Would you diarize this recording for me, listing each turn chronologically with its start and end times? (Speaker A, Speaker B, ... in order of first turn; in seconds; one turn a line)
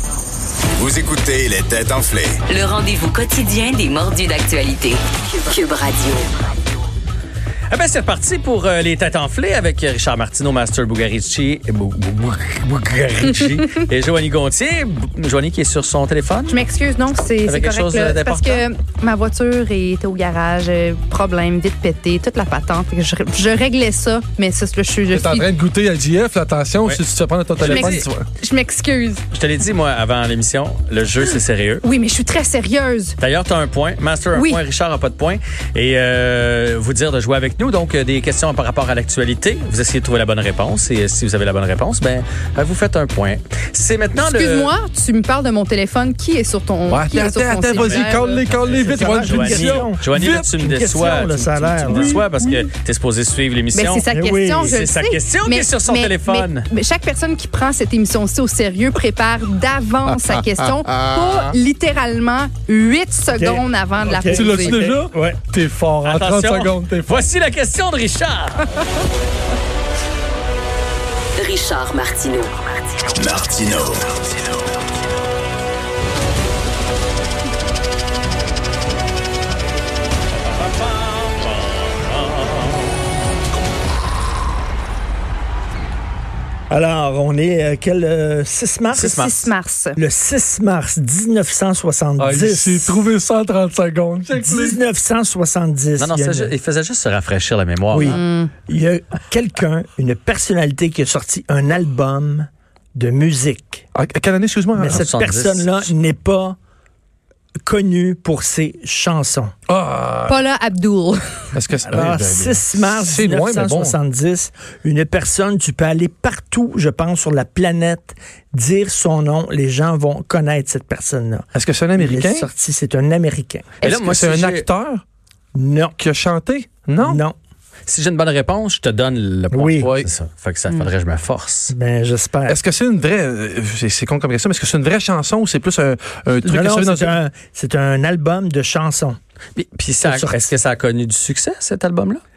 Speaker A: 0.8-2.4
Speaker B: 2.5-6.3
Speaker C: 7.7-16.6
Speaker D: 16.5-25.5
Speaker C: 17.4-18.6
Speaker E: 25.1-28.2
Speaker C: 27.6-27.9
Speaker D: 27.6-29.2
Speaker C: 29.3-31.9
Speaker D: 31.8-33.2
Speaker C: 33.2-44.7
Speaker D: 34.3-34.6
Speaker D: 44.2-48.4
Speaker E: 46.9-50.5
Speaker C: 48.4-54.0
Speaker F: 48.6-52.3
Speaker D: 53.7-64.8
Speaker F: 54.1-54.8
Speaker C: 54.6-56.7
Speaker E: 60.1-61.5
Speaker F: 63.3-65.4
Speaker E: 64.2-67.2
Speaker C: 66.0-68.7
Speaker B: 71.4-72.5
Speaker B: 73.1-73.5
Speaker A: 73.2-74.3
Speaker C: 80.5-82.9
Speaker F: 86.7-89.3
Speaker C: 88.9-89.5
Speaker D: 89.1-90.0
Speaker F: 89.9-93.0
Speaker E: 92.2-94.8
Speaker F: 94.3-96.5
Speaker C: 96.0-98.2
Speaker F: 97.9-103.8
Speaker D: 98.0-98.5
Speaker E: 103.9-105.0
Speaker F: 104.8-106.5
Speaker C: 104.9-105.9
Speaker F: 107.7-109.5
Speaker E: 109.7-110.4
Speaker D: 110.2-111.5
Speaker E: 111.5-114.0
Speaker F: 111.8-123.7
Speaker E: 121.5-122.5
Speaker C: 123.8-124.7
Speaker E: 123.8-125.0
Speaker F: 125.5-126.0
Speaker E: 126.0-127.2
Speaker F: 127.0-127.3
Speaker C: 127.8-131.7
Speaker F: 129.5-129.9
Speaker E: 129.8-130.1
Speaker F: 131.7-132.6
Speaker E: 132.5-137.2
Speaker F: 136.4-139.2
Speaker C: 139.6-142.2
Speaker F: 140.0-140.5